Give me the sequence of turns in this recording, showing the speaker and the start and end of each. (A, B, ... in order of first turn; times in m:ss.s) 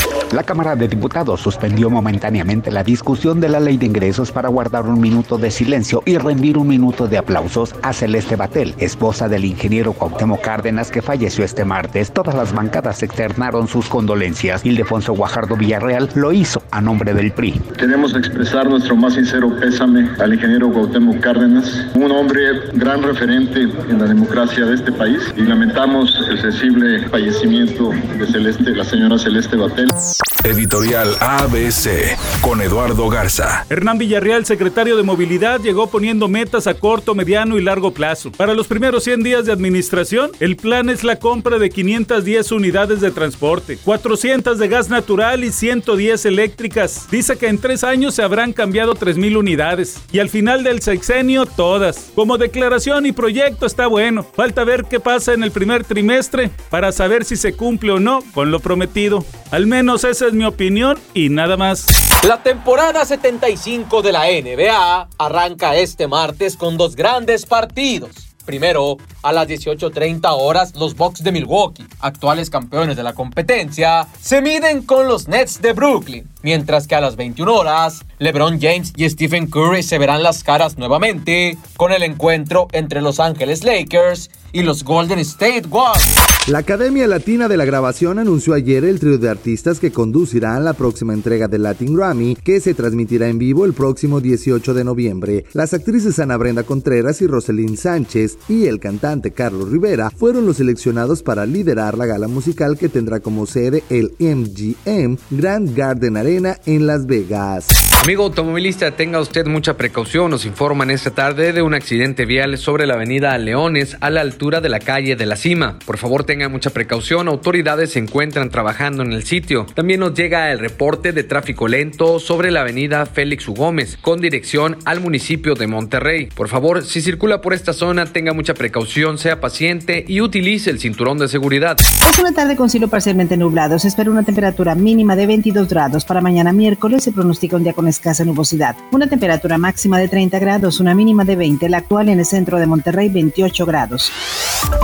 0:00.3-0:17.6 A
0:17.8-0:29.9 B
0:30.4-0:33.6 C
0:33.7-1:01.9 D
1:02.2-1:26.2 E
1:26.4-1:47.8 F
1:48.0-2:11.8 G
2:12.0-2:24.1 H